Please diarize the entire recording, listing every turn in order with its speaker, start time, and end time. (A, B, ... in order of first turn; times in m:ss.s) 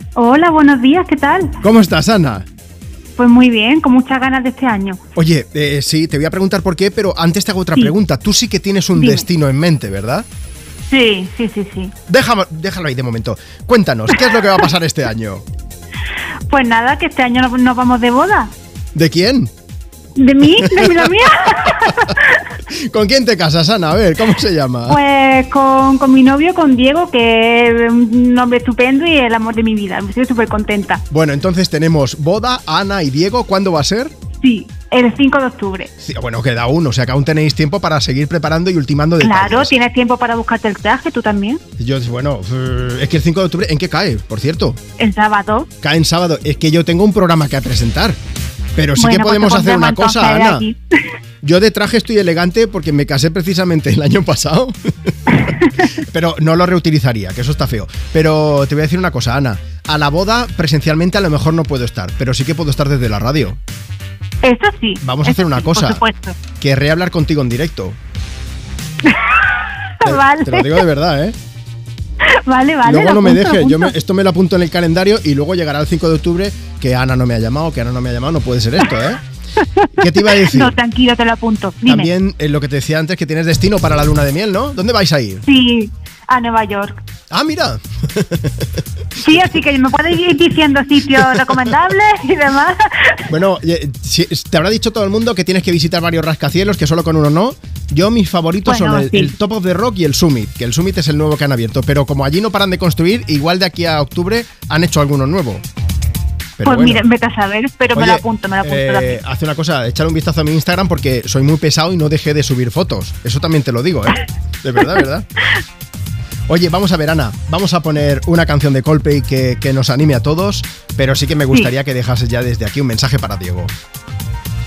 0:00.2-0:01.6 A
0:01.6-0:02.5 B
0:03.2-0:05.0 A
0:05.2-0:10.3 B
0:09.0-0:09.3 A
0:10.9-0:11.9 A
0:12.1-0:15.4 B
0:16.5-0:18.5 A
0:19.0-0:19.5 B
0:20.2-0:22.5 A
0:20.6-0:21.0 B
0:21.8-0:25.0 B
0:24.9-0:31.0 A
0:31.1-0:34.1 B
0:34.4-0:35.9 A
0:36.0-0:39.7 B
0:39.2-0:41.6 A
0:41.8-0:44.8 B
0:45.0-0:45.7 A
0:45.8-0:48.2 B
0:48.8-0:50.6 B
0:49.0-0:50.8 A
0:51.4-1:03.6 B
0:55.5-0:55.8 A
1:04.4-1:06.4 A
1:05.0-1:06.0 B
1:06.6-1:08.0 B
1:09.0-1:10.8 A
1:10.0-1:11.4 B
1:12.2-1:13.9 A
1:12.8-1:19.2 B
1:19.6-1:22.1 A
1:20.0-1:20.7 B
1:21.9-1:25.4 B
1:25.4-1:27.0 A
1:27.3-1:28.7 B
1:29.2-1:33.3 A
1:31.2-1:31.5 B
1:33.3-1:45.6 B
1:38.6-1:39.4 A
1:46.6-1:47.0 B
1:46.6-1:49.2 A
1:47.9-1:55.3 B
1:56.5-2:03.7 B